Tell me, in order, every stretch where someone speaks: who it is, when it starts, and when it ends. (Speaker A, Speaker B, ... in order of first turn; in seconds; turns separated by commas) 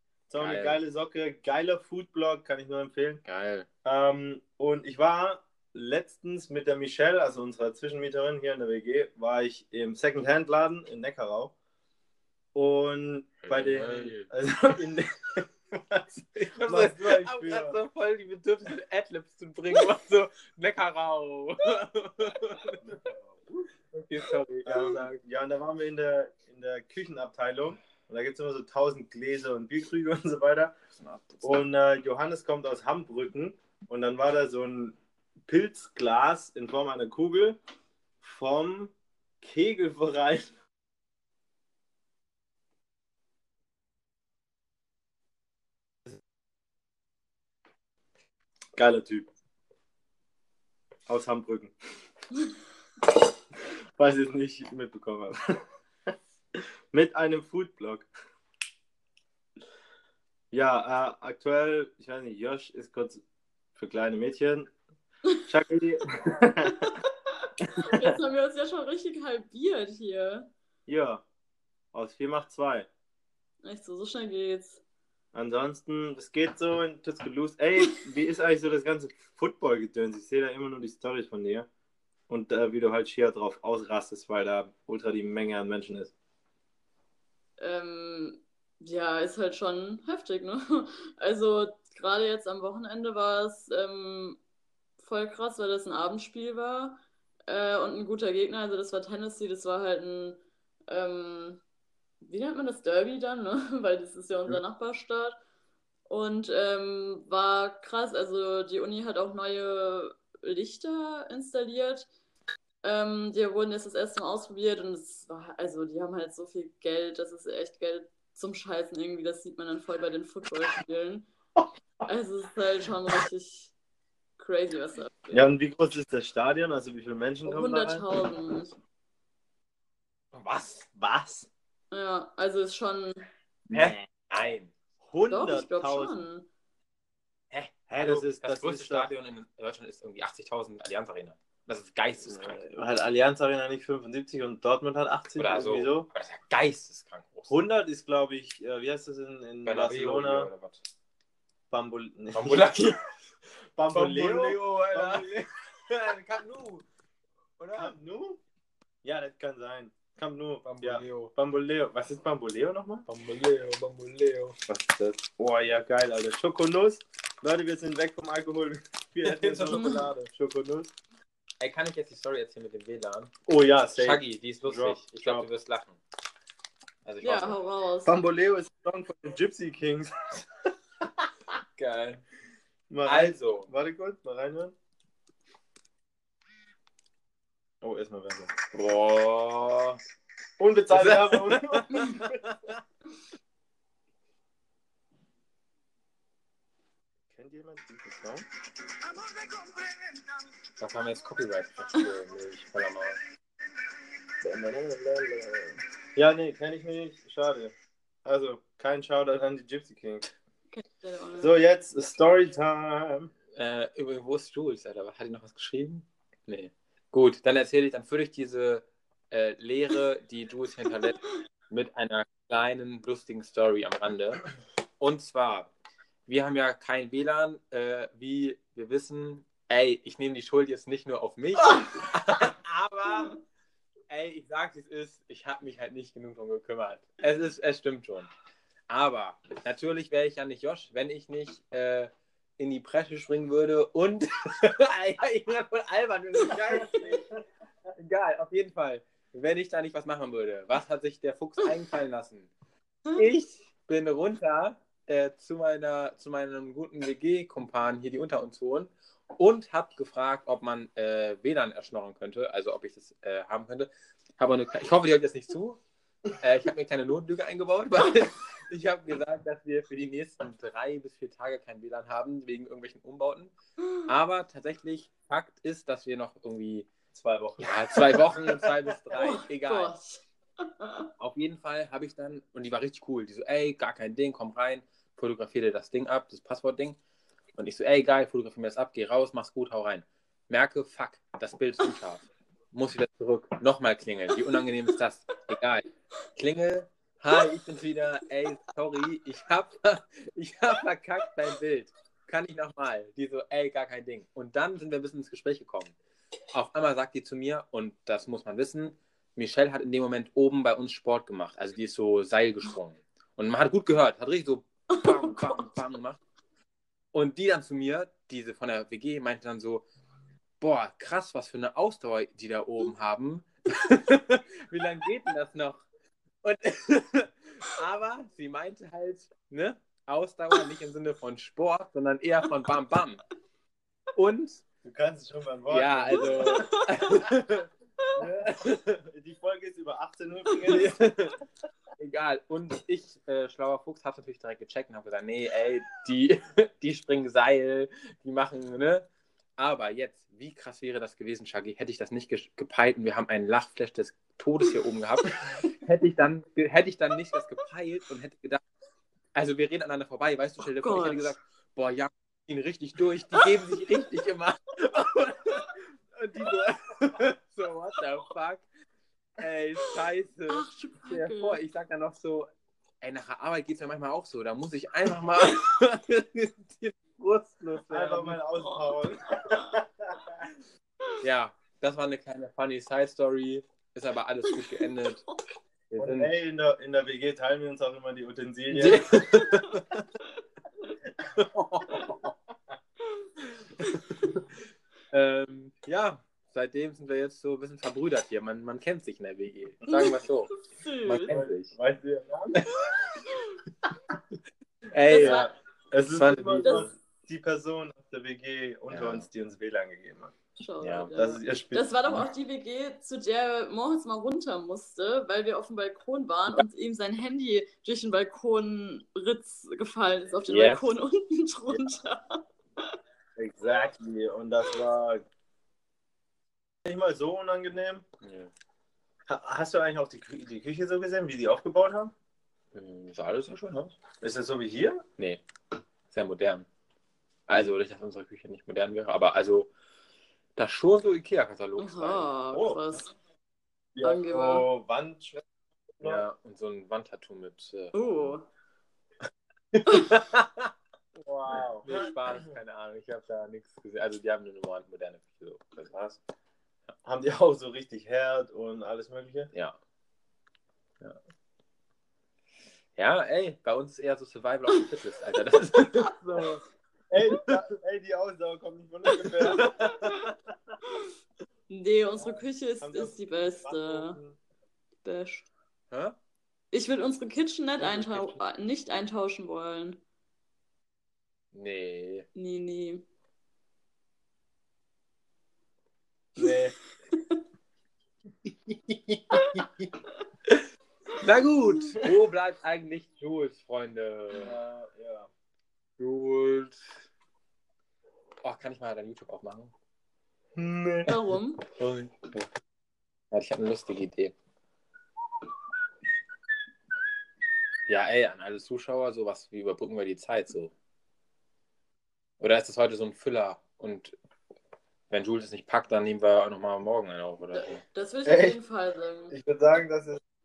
Speaker A: 0.3-3.2, Speaker B: 0.4-0.8, Speaker B: 3.2-3.7, Speaker A: 3.9-11.5, Speaker A: 12.5-16.1, Speaker B: 13.4-14.3, Speaker B: 16.3-23.0, Speaker A: 16.6-17.8, Speaker A: 22.8-23.6, Speaker B: 23.9-25.2, Speaker A: 24.6-30.8, Speaker B: 31.0-31.6, Speaker A: 31.4-35.0, Speaker A: 35.5-37.6, Speaker A: 38.2-40.5, Speaker A: 48.8-49.3, Speaker A: 51.1-51.7, Speaker A: 54.0-55.6, Speaker A: 56.5-58.1, Speaker A: 60.5-63.2, Speaker A: 63.8-64.7, Speaker A: 65.5-66.9, Speaker C: 66.7-70.5, Speaker A: 70.9-71.2, Speaker A: 71.9-72.9, Speaker C: 73.6-74.8, Speaker A: 75.3-81.7, Speaker A: 82.3-86.1, Speaker C: 87.6-94.4, Speaker C: 95.0-101.6, Speaker C: 102.2-105.4, Speaker C: 106.1-112.1, Speaker C: 112.8-121.3, Speaker C: 122.1-123.7, Speaker C: 124.4-125.5, Speaker A: 125.3-128.1, Speaker C: 127.5-128.7, Speaker B: 130.3-130.9, Speaker A: 130.9-131.5, Speaker C: 131.9-133.3, Speaker A: 133.7-134.0, Speaker B: 133.7-134.7, Speaker A: 135.0-136.2, Speaker C: 135.3-136.5, Speaker B: 137.5-142.6, Speaker A: 137.9-139.1, Speaker A: 142.3-146.1, Speaker B: 145.4-147.6, Speaker A: 147.5-150.5, Speaker B: 149.7-150.8, Speaker A: 151.7-152.7, Speaker B: 152.3-153.1, Speaker A: 153.8-155.3, Speaker B: 153.9-156.8, Speaker B: 157.6-157.9, Speaker A: 157.8-158.4, Speaker A: 159.0-163.1, Speaker B: 160.6-161.3, Speaker B: 163.1-164.6, Speaker A: 164.7-170.9, Speaker B: 169.2-170.3, Speaker C: 169.7-170.1, Speaker B: 171.6-173.3, Speaker A: 173.5-175.5, Speaker B: 174.0-176.0, Speaker B: 177.1-177.6, Speaker C: 177.2-178.2, Speaker A: 178.1-180.4, Speaker B: 181.8-182.2, Speaker A: 182.9-184.8, Speaker B: 183.1-183.7, Speaker A: 187.8-188.5, Speaker B: 188.7-190.0, Speaker A: 190.6-192.4, Speaker B: 190.9-192.8, Speaker A: 197.3-198.5, Speaker B: 200.8-203.2, Speaker A: 204.4-207.7, Speaker A: 208.2-210.3, Speaker C: 210.7-211.5, Speaker A: 211.4-213.3, Speaker B: 213.6-224.5, Speaker B: 225.0-225.7, Speaker B: 226.3-233.4, Speaker B: 234.1-238.3, Speaker B: 238.9-247.3, Speaker A: 246.9-247.2, Speaker B: 248.0-252.5, Speaker B: 253.1-265.8, Speaker B: 266.3-273.5, Speaker B: 274.1-276.9, Speaker A: 277.1-278.9, Speaker B: 277.6-279.9, Speaker C: 279.1-281.1, Speaker B: 281.2-287.0, Speaker B: 287.6-305.9, Speaker B: 306.5-316.2, Speaker C: 314.9-315.7, Speaker B: 317.1-319.9, Speaker B: 320.6-325.9, Speaker B: 326.4-333.2, Speaker B: 334.1-334.6, Speaker A: 334.8-336.6, Speaker B: 335.7-337.7, Speaker C: 336.2-337.2, Speaker A: 338.2-341.1, Speaker B: 338.2-339.0, Speaker B: 340.6-341.4, Speaker B: 342.0-349.1, Speaker B: 349.6-358.6, Speaker B: 359.4-368.6, Speaker C: 360.7-361.4, Speaker B: 369.4-372.5, Speaker C: 370.5-371.6, Speaker B: 373.0-378.4, Speaker A: 377.9-380.4, Speaker C: 378.6-379.7, Speaker B: 381.2-385.2, Speaker C: 384.5-385.4, Speaker B: 385.9-386.3, Speaker A: 386.0-389.1, Speaker B: 388.7-389.9, Speaker B: 391.4-392.3, Speaker B: 393.8-394.4, Speaker B: 395.1-400.5, Speaker C: 399.9-401.3, Speaker B: 401.1-401.7, Speaker A: 401.3-402.8, Speaker B: 402.6-402.9, Speaker B: 404.9-405.5, Speaker C: 405.1-405.5, Speaker A: 405.1-410.4, Speaker B: 406.1-406.9, Speaker B: 408.9-409.3, Speaker C: 410.6-423.0, Speaker B: 410.8-411.1, Speaker A: 411.1-411.9, Speaker B: 420.5-420.9, Speaker A: 423.4-425.2, Speaker A: 426.8-428.1, Speaker B: 428.2-428.5, Speaker A: 429.3-432.1, Speaker B: 432.7-434.0, Speaker A: 434.2-435.0, Speaker B: 436.1-436.7, Speaker B: 437.5-439.7, Speaker B: 440.6-442.3, Speaker C: 441.8-443.1, Speaker A: 442.5-442.8, Speaker A: 444.0-445.4, Speaker C: 444.0-444.7, Speaker B: 446.0-448.3, Speaker C: 447.9-448.5, Speaker B: 449.7-456.2, Speaker A: 451.5-452.0, Speaker A: 457.1-459.5, Speaker B: 463.0-466.6, Speaker C: 465.9-466.5, Speaker A: 467.1-469.9, Speaker C: 469.3-470.3, Speaker B: 469.5-470.0, Speaker C: 471.7-474.2, Speaker A: 472.8-474.4, Speaker C: 475.1-475.5, Speaker B: 475.9-476.2, Speaker C: 476.7-480.0, Speaker B: 477.8-478.4, Speaker B: 481.5-482.3, Speaker C: 482.4-483.1, Speaker C: 487.1-487.4, Speaker B: 488.5-489.9, Speaker C: 489.3-489.6, Speaker B: 491.2-494.6, Speaker A: 494.4-495.3, Speaker B: 496.0-496.8, Speaker B: 498.4-499.7, Speaker A: 500.6-501.1, Speaker C: 501.1-501.6, Speaker B: 501.7-502.5, Speaker B: 503.3-504.3, Speaker B: 507.9-510.7, Speaker B: 512.4-514.1, Speaker B: 515.1-517.8, Speaker C: 517.5-519.4, Speaker A: 518.3-518.6, Speaker A: 519.3-520.2